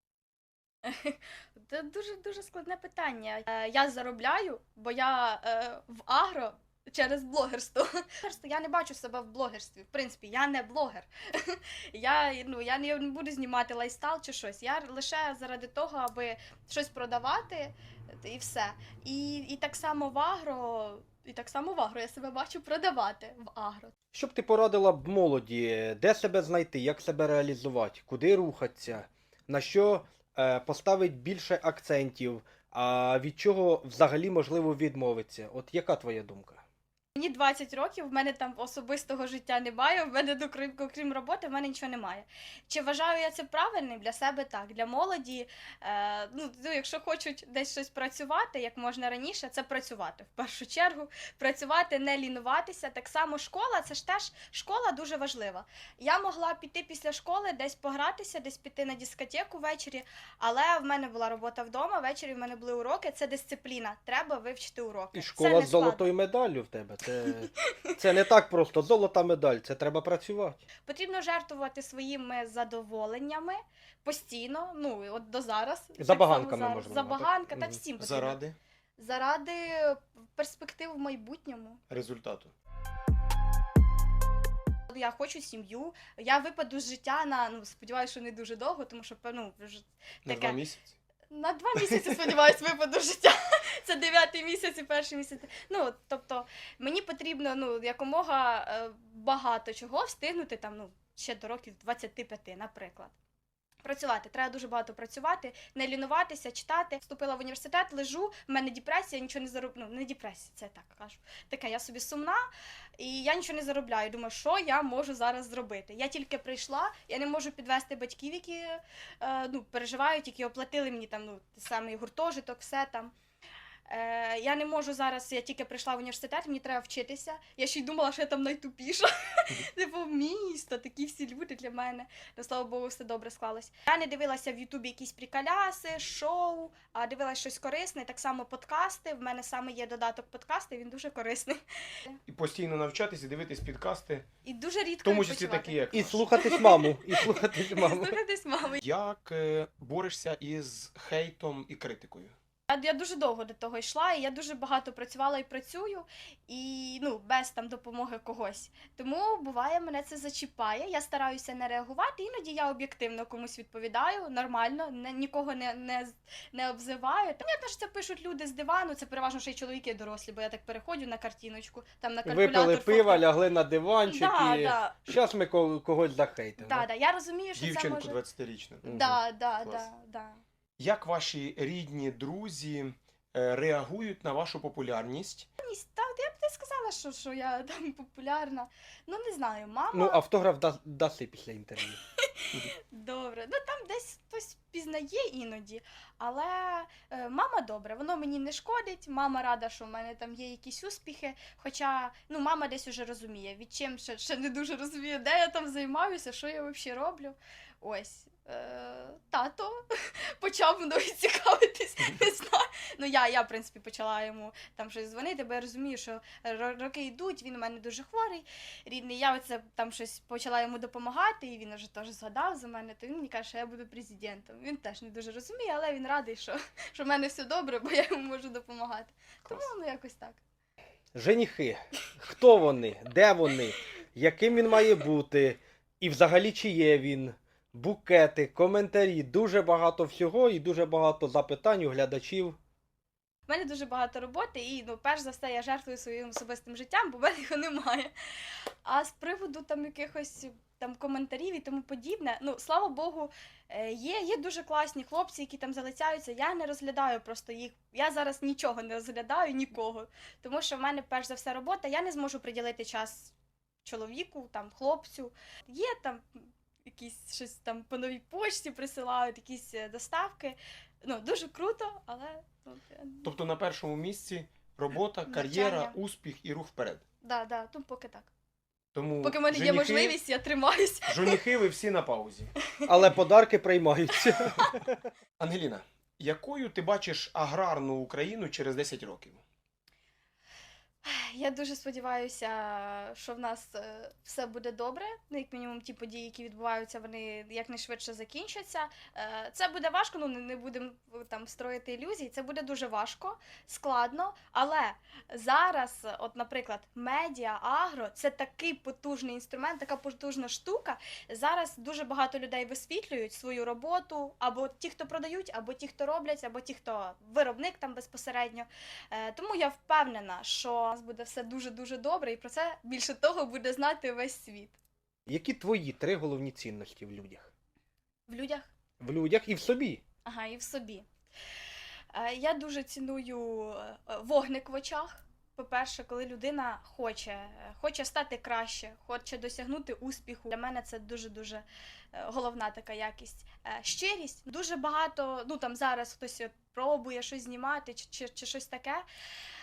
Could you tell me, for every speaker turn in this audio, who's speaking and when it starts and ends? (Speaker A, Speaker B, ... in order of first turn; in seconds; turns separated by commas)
Speaker A: 0.8-23.9, Speaker B: 24.1-36.6, Speaker A: 37.1-66.1, Speaker B: 65.1-70.6, Speaker A: 70.8-78.4, Speaker B: 76.0-77.8, Speaker C: 78.0-78.6, Speaker A: 79.0-81.8, Speaker C: 81.9-82.5, Speaker A: 84.9-90.6, Speaker C: 90.2-90.9, Speaker A: 91.3-103.1, Speaker A: 103.8-112.5, Speaker A: 113.0-123.1, Speaker A: 123.9-142.2, Speaker C: 142.3-144.2, Speaker A: 144.4-148.8, Speaker C: 145.0-146.6, Speaker B: 145.9-148.2, Speaker C: 148.8-152.3, Speaker A: 152.7-173.2, Speaker B: 172.2-176.8, Speaker A: 174.1-175.0, Speaker A: 176.6-178.2, Speaker C: 177.5-179.9, Speaker A: 178.8-180.4, Speaker C: 180.8-185.5, Speaker A: 185.6-190.2, Speaker B: 189.9-192.0, Speaker A: 192.2-230.4, Speaker B: 231.1-242.6, Speaker A: 243.5-248.1, Speaker A: 248.8-263.3, Speaker A: 263.8-273.3, Speaker C: 273.2-277.0, Speaker A: 275.2-275.9, Speaker A: 277.2-278.3, Speaker C: 278.9-280.2, Speaker A: 279.2-281.4, Speaker C: 281.1-282.5, Speaker B: 282.9-285.1, Speaker C: 285.4-289.4, Speaker A: 291.0-324.8, Speaker B: 325.3-327.5, Speaker A: 328.3-328.7, Speaker B: 329.0-330.0, Speaker A: 330.2-331.1, Speaker A: 332.1-349.0